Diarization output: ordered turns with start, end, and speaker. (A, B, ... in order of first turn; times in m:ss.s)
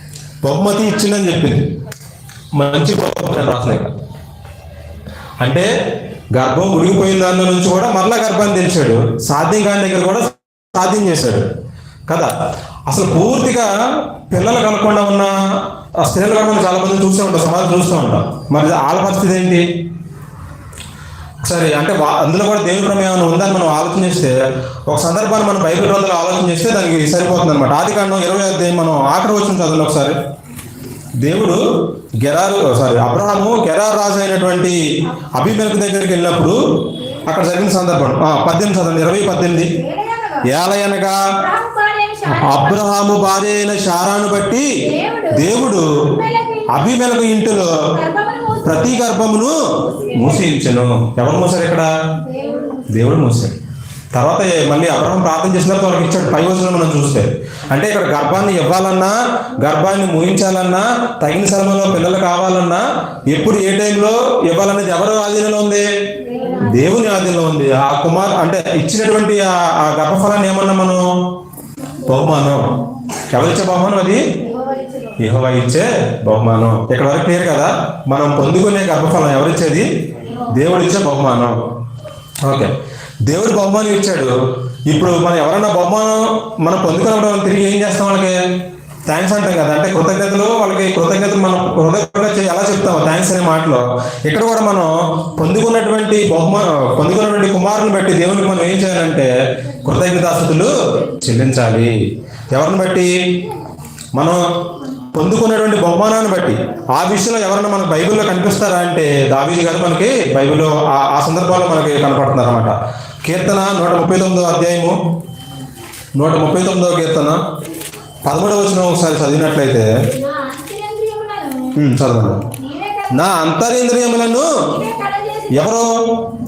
0:00.4-0:01.6 A
0:02.5-0:03.9 A
0:05.4-0:05.7 A
0:06.3-0:11.5 A
0:12.9-0:13.7 A
0:14.3-0:15.3 A
0:16.0-0:19.6 A
0:21.4-0:24.4 A
0:24.9-0:30.2 A
0:31.2-0:31.6 A
0:32.2-0:34.8 A
0:35.3-0:36.6 A
0:37.2-0:39.7 A
0:39.8-0:40.5 B
0:40.4-0:41.2 A
0:41.4-0:42.7 B
0:42.2-0:44.7 A
0:44.8-0:45.5 B
0:45.3-0:45.9 A
0:46.0-0:46.7 B
0:46.7-0:47.7 A
0:48.0-0:48.8 B
0:48.6-0:51.9 A
0:52.2-0:52.9 B
0:52.9-0:53.5 A
0:54.1-1:05.9 A
1:06.3-1:06.9 B
1:06.6-1:11.0 A
1:12.0-1:12.7 A
1:13.3-1:14.2 A
1:14.4-1:15.2 B
1:15.2-1:19.9 A
1:20.5-1:21.6 A
1:22.4-1:22.7 A
1:23.2-1:24.3 A
1:24.9-1:28.4 A
1:29.1-1:39.3 A
1:39.8-1:41.9 A
1:42.5-1:43.1 A
1:44.1-1:44.4 A
1:45.1-1:52.7 A
1:53.2-1:54.9 A
1:56.2-1:57.4 A
1:58.2-1:59.9 A
2:00.1-2:01.7 B
2:01.7-2:02.4 A
2:02.6-2:03.1 B
2:03.1-2:04.5 A
2:04.7-2:05.5 B
2:05.5-2:05.9 A